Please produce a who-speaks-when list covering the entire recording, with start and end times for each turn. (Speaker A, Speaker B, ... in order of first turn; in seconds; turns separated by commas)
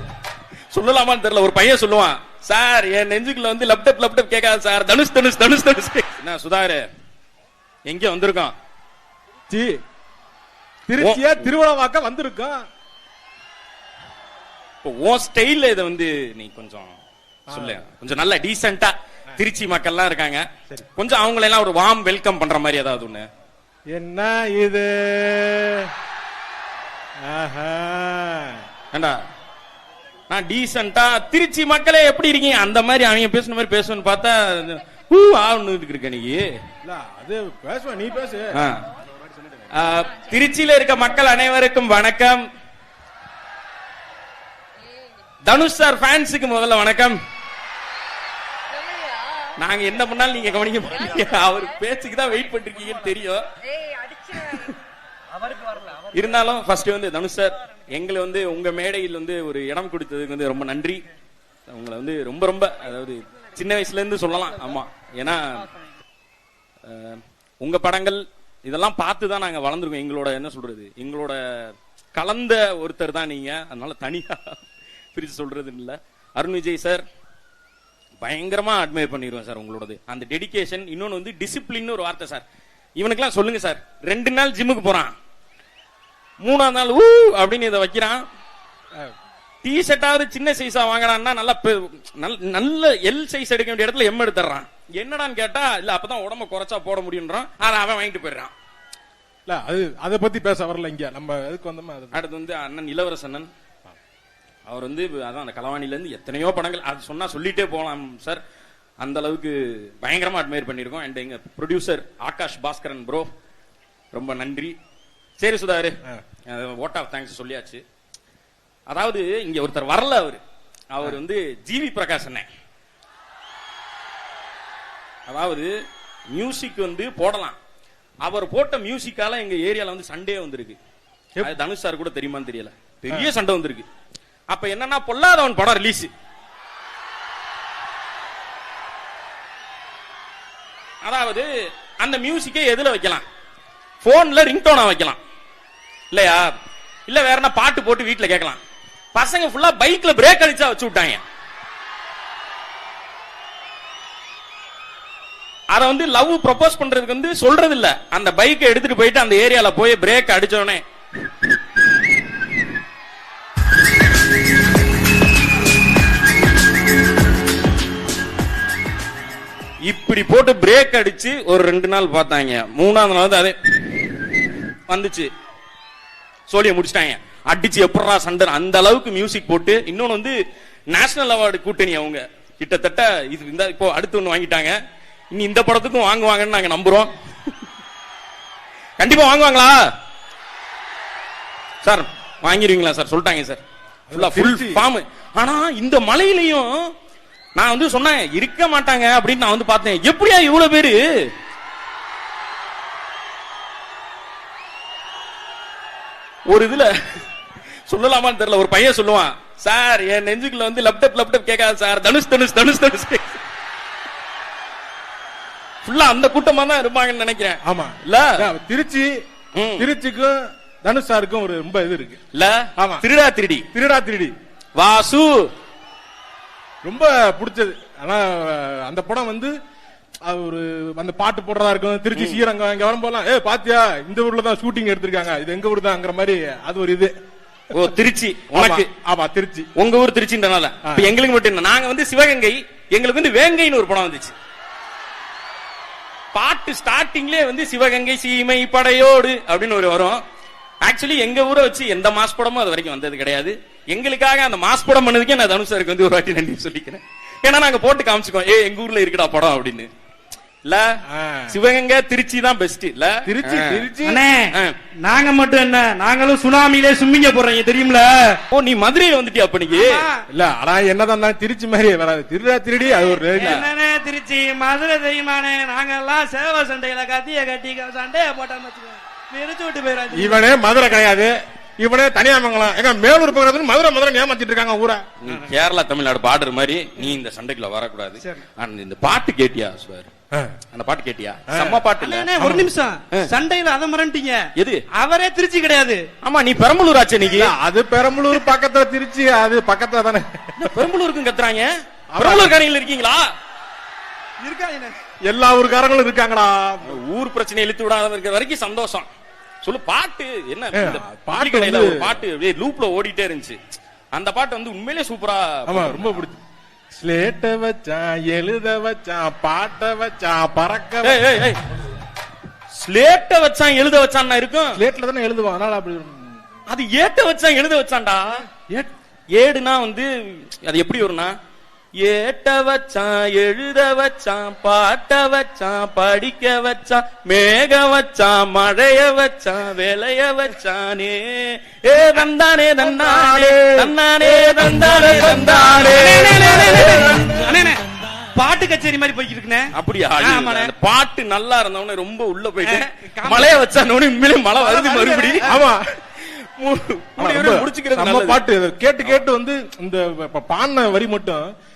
Speaker A: 0.7-6.8, Speaker A: 7.8-8.5, Speaker B: 9.5-9.8, Speaker B: 10.9-12.6, Speaker A: 11.0-11.5, Speaker A: 14.8-17.0, Speaker B: 17.5-17.8, Speaker A: 17.5-23.2, Speaker B: 23.9-25.9, Speaker B: 27.2-28.6, Speaker A: 28.9-29.2, Speaker A: 30.3-36.5, Speaker B: 36.8-38.6, Speaker A: 38.5-38.8, Speaker A: 39.7-42.4, Speaker A: 45.4-47.2, Speaker A: 49.5-53.4, Speaker A: 54.0-54.8, Speaker C: 55.5-56.0, Speaker A: 56.1-61.0, Speaker A: 61.7-65.8, Speaker A: 66.8-77.0, Speaker A: 78.2-82.4, Speaker A: 83.0-85.1, Speaker A: 86.4-88.2, Speaker A: 89.6-98.5, Speaker B: 99.5-102.2, Speaker A: 102.1-103.5, Speaker A: 104.7-108.4, Speaker A: 109.0-113.3, Speaker A: 114.1-114.8, Speaker A: 115.4-117.8, Speaker A: 118.9-122.5, Speaker A: 125.3-125.7, Speaker A: 126.3-127.6, Speaker A: 128.2-130.8, Speaker A: 131.4-133.8, Speaker A: 134.5-136.1, Speaker A: 141.0-141.5, Speaker A: 142.0-143.2, Speaker A: 144.0-145.2, Speaker A: 146.1-146.5, Speaker A: 147.1-148.6, Speaker A: 149.1-151.2, Speaker A: 155.7-160.8, Speaker A: 169.8-174.0, Speaker A: 174.9-175.3, Speaker A: 176.5-180.3, Speaker A: 180.9-184.7, Speaker A: 185.3-187.1, Speaker A: 189.0-189.8, Speaker A: 191.8-193.6, Speaker B: 194.1-194.8, Speaker A: 194.1-196.9, Speaker A: 197.6-201.3, Speaker A: 206.5-206.9, Speaker A: 207.9-213.4, Speaker A: 215.8-218.4, Speaker B: 217.6-219.1, Speaker A: 219.6-219.9, Speaker B: 219.8-222.2, Speaker A: 222.3-223.7, Speaker B: 222.8-223.0, Speaker B: 223.7-224.3, Speaker A: 224.8-225.5, Speaker B: 226.8-229.5, Speaker B: 230.2-237.1, Speaker A: 232.1-232.4, Speaker A: 237.7-238.9, Speaker B: 238.5-239.7, Speaker A: 239.8-244.3, Speaker B: 240.8-241.1, Speaker A: 246.3-250.2, Speaker A: 250.8-259.9, Speaker A: 260.6-260.9, Speaker B: 261.1-261.5, Speaker A: 261.5-263.9, Speaker B: 263.2-264.2, Speaker C: 264.0-268.4, Speaker A: 268.5-270.1, Speaker C: 269.7-270.2, Speaker B: 270.3-273.6, Speaker C: 272.9-280.4, Speaker A: 273.3-273.7, Speaker B: 280.1-285.0, Speaker A: 285.2-290.1, Speaker A: 290.7-292.3, Speaker B: 291.5-291.8, Speaker C: 292.0-296.1, Speaker B: 292.4-292.7, Speaker A: 294.6-294.8, Speaker A: 296.2-297.5, Speaker B: 297.3-300.4, Speaker A: 300.6-303.3, Speaker B: 302.1-302.6, Speaker C: 304.4-305.0, Speaker B: 305.2-307.0, Speaker A: 306.8-309.1, Speaker A: 309.6-313.6, Speaker B: 310.7-312.1, Speaker A: 314.1-316.2, Speaker B: 315.7-316.4, Speaker B: 316.9-321.2, Speaker A: 321.0-321.6, Speaker A: 322.7-324.8, Speaker B: 324.7-326.3, Speaker A: 326.7-328.6, Speaker A: 329.3-331.3, Speaker A: 332.0-347.4, Speaker C: 343.0-343.7, Speaker C: 344.4-347.8, Speaker C: 348.3-350.7, Speaker A: 349.7-355.5, Speaker C: 352.6-353.6, Speaker C: 354.6-355.6, Speaker B: 355.4-355.8, Speaker A: 356.1-358.4, Speaker B: 357.2-361.5